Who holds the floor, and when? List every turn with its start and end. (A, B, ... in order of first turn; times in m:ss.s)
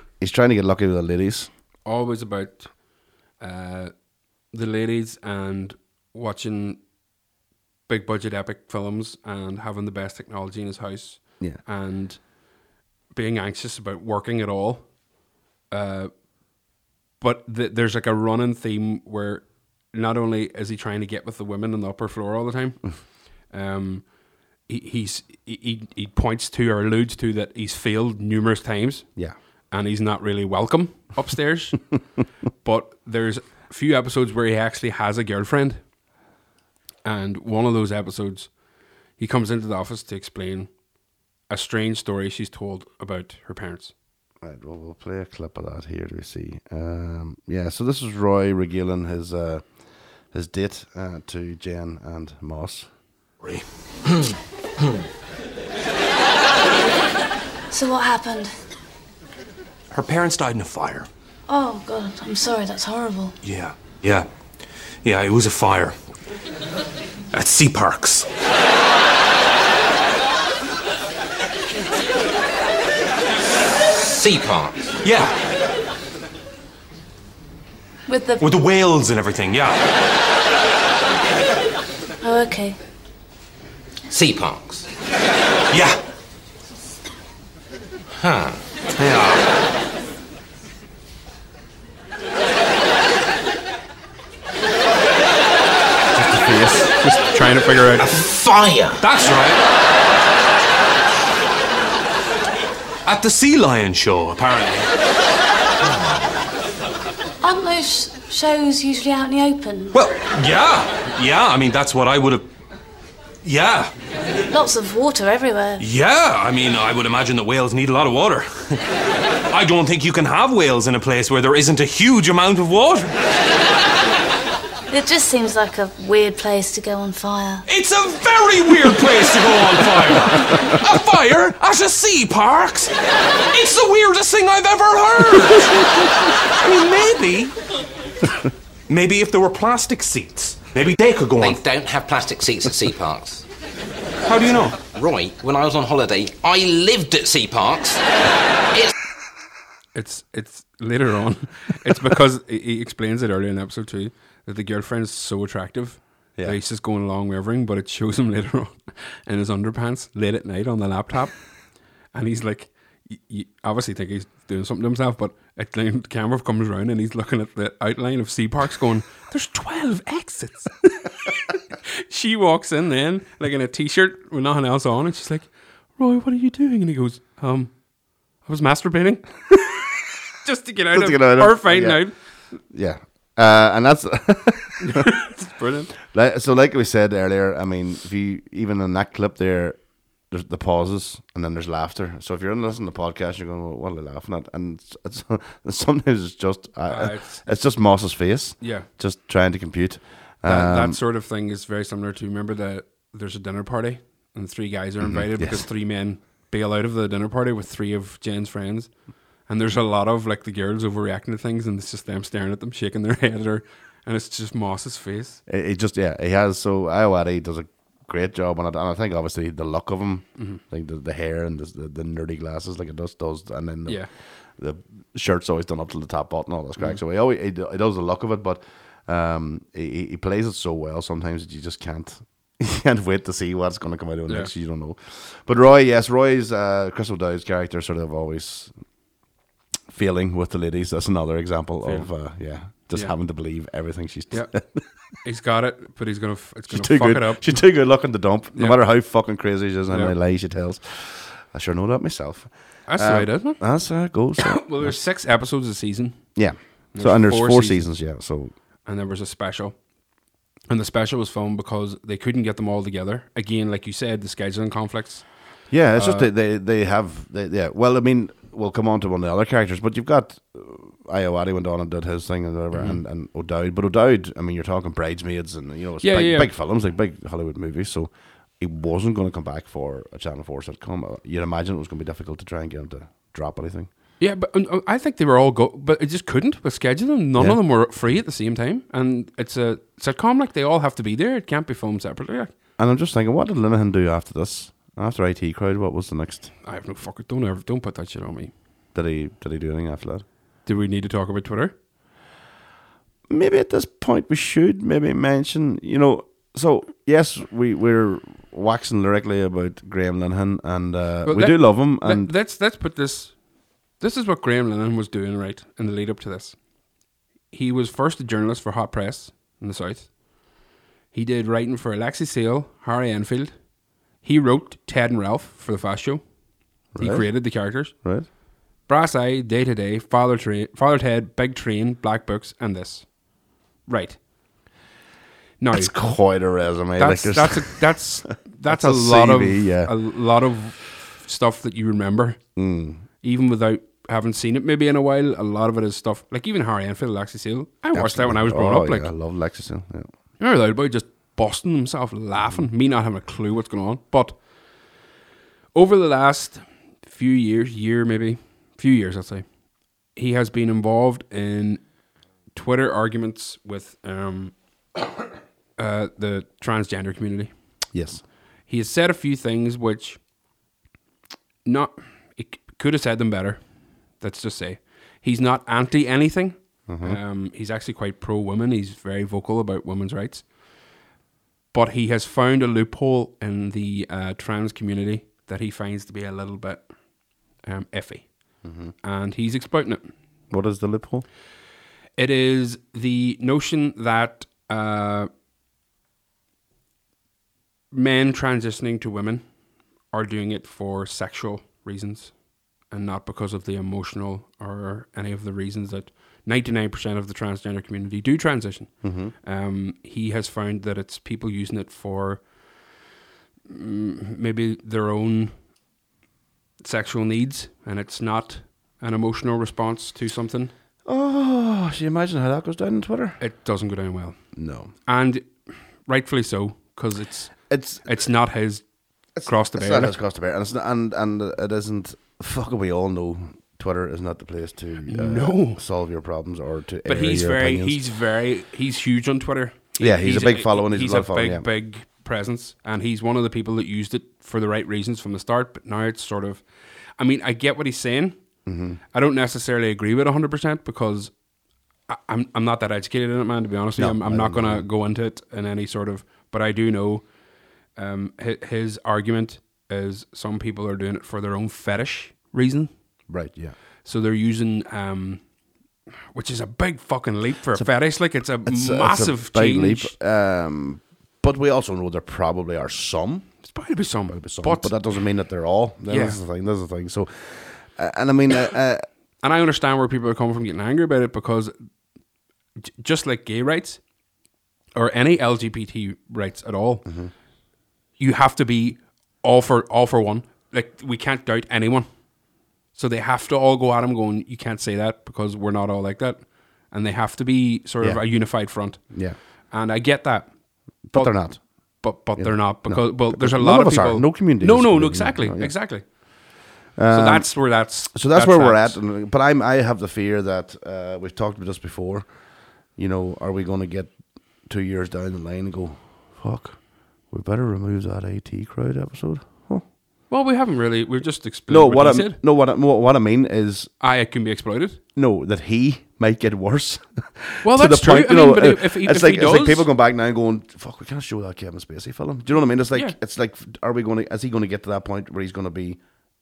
0:00.2-0:01.5 A
0:01.8-0:02.7 B
0:03.4-0:03.9 B
0:04.5-0:06.8 B
0:07.9-0:12.3 B
0:13.1-0:14.9 B
0:15.7-0:16.1 B
0:17.2-0:22.9 B
0:23.5-0:24.1 B
0:24.7-0:29.1 B
0:29.7-0:31.8 B
0:32.6-0:35.8 B
0:37.0-0:38.5 B
0:39.2-0:40.7 B
0:41.5-0:43.9 B
0:44.4-0:49.7 A
0:50.3-0:52.9 A
0:53.4-0:54.3 C
0:57.7-0:58.5 D
0:59.9-1:01.1 C
1:01.5-1:03.3 D
1:03.4-1:04.3 C
1:05.0-1:06.0 C
1:07.3-1:08.3 C
1:14.0-1:14.9 E
1:15.0-1:15.4 C
1:18.1-1:18.5 D
1:18.4-1:19.8 C
1:22.2-1:22.8 D
1:24.1-1:24.9 E
1:25.7-1:26.0 C
1:28.2-1:28.6 E
1:29.0-1:29.5 C
1:36.2-1:38.1 B
1:38.0-1:39.0 E
1:39.0-1:39.6 C
1:43.1-1:44.9 C
1:47.4-1:50.0 D
1:49.9-1:52.5 C
1:53.4-1:53.9 C
1:54.5-1:55.8 D
1:55.8-1:58.8 C
1:59.5-2:03.2 C
2:04.9-2:07.6 D
2:07.7-2:12.9 C
2:13.5-2:17.6 C
2:18.9-2:21.6 C
2:21.4-2:23.4 E
2:24.2-2:24.8 C
2:24.9-2:28.0 E
2:30.0-2:41.4 B
2:42.1-2:57.7 B
2:58.4-2:59.6 B
3:00.4-3:02.1 B
3:00.9-3:02.0 A
3:02.7-3:05.2 A
3:04.8-3:05.9 B
3:06.0-3:09.8 A
3:10.3-3:21.0 A
3:16.9-3:17.4 B
3:18.6-3:18.9 B
3:20.5-3:28.9 B
3:25.0-3:25.7 A
3:29.5-3:35.4 B
3:35.5-3:44.1 A
3:44.6-3:58.7 A
3:59.9-4:04.8 A
4:01.8-4:02.1 B
4:05.2-4:07.5 B
4:06.7-4:15.0 A
4:09.9-4:10.2 B
4:12.9-4:13.6 B
4:14.4-4:16.3 B
4:16.4-4:18.5 A
4:16.9-4:17.8 B
4:18.9-4:19.8 B
4:20.7-4:25.3 B
4:25.7-4:43.9 A
4:26.0-4:26.3 B
4:32.7-4:33.0 B
4:36.0-4:36.5 B
4:44.2-4:52.5 B
4:47.4-4:48.1 A
4:52.8-4:56.5 A
4:56.6-4:58.5 B
4:58.9-5:00.2 A
5:00.7-5:01.7 B
5:03.3-5:12.3 A
5:11.3-5:13.4 B
5:14.0-5:16.6 B
5:17.5-5:20.1 B
5:21.1-5:23.6 B
5:24.2-5:26.2 B
5:26.9-5:28.3 A
5:27.0-5:28.0 B
5:28.9-5:33.1 B
5:33.9-5:34.2 B
5:35.6-5:35.9 B
5:35.7-5:40.0 A
5:37.0-5:42.4 B
5:42.6-5:43.0 A
5:43.2-5:49.1 B
5:47.9-5:50.1 A
5:50.4-5:54.4 B
5:55.7-5:59.4 B
6:00.2-6:01.8 B
6:02.5-6:04.6 B
6:05.8-6:07.5 B
6:07.9-6:08.2 A
6:08.7-6:10.2 B
6:11.6-6:13.6 B
6:14.2-6:20.4 B
6:16.9-6:17.2 A
6:21.7-6:26.9 B
6:27.6-6:28.3 B
6:28.6-6:28.9 A
6:29.0-6:30.1 B
6:30.5-6:31.3 A
6:32.2-6:35.3 B
6:37.9-6:39.4 B
6:40.1-6:42.3 B
6:42.9-6:52.4 B
6:49.0-6:49.3 A
6:53.7-6:55.5 B
6:56.8-7:00.7 B
7:01.0-7:03.4 A
7:03.4-7:04.4 B
7:04.6-7:04.9 A
7:05.1-7:08.8 B
7:07.7-7:08.2 A
7:09.4-7:18.0 A
7:09.4-7:10.2 B
7:15.1-7:15.8 B
7:17.1-7:26.6 B
7:20.0-7:21.7 A
7:27.2-7:28.4 B
7:28.7-7:29.0 A
7:29.1-7:31.3 B
7:32.1-7:37.2 B
7:34.0-7:34.9 A
7:38.0-7:42.9 B
7:43.3-7:43.8 A
7:44.0-7:45.4 B
7:46.3-7:50.1 B
7:47.7-7:53.6 A
7:53.6-7:54.9 B
7:54.3-7:59.0 A
7:56.1-7:56.4 B
7:59.4-8:01.7 B
8:02.8-8:04.0 B
8:05.0-8:07.1 B
8:07.0-8:07.3 A
8:08.2-8:12.1 B
8:13.0-8:19.0 B
8:18.0-8:18.3 A
8:19.1-8:19.4 A
8:19.7-8:20.5 B
8:21.1-8:21.6 A
8:21.1-8:21.4 B
8:22.0-8:26.1 B
8:22.4-8:25.8 A
8:27.0-8:32.3 A
8:27.1-8:29.0 B
8:33.0-8:34.1 A
8:34.7-8:36.8 A
8:37.3-8:39.8 A
8:40.3-8:42.4 B
8:41.7-8:43.9 A
8:44.0-8:45.0 B
8:45.2-8:56.0 A
8:47.6-8:49.9 B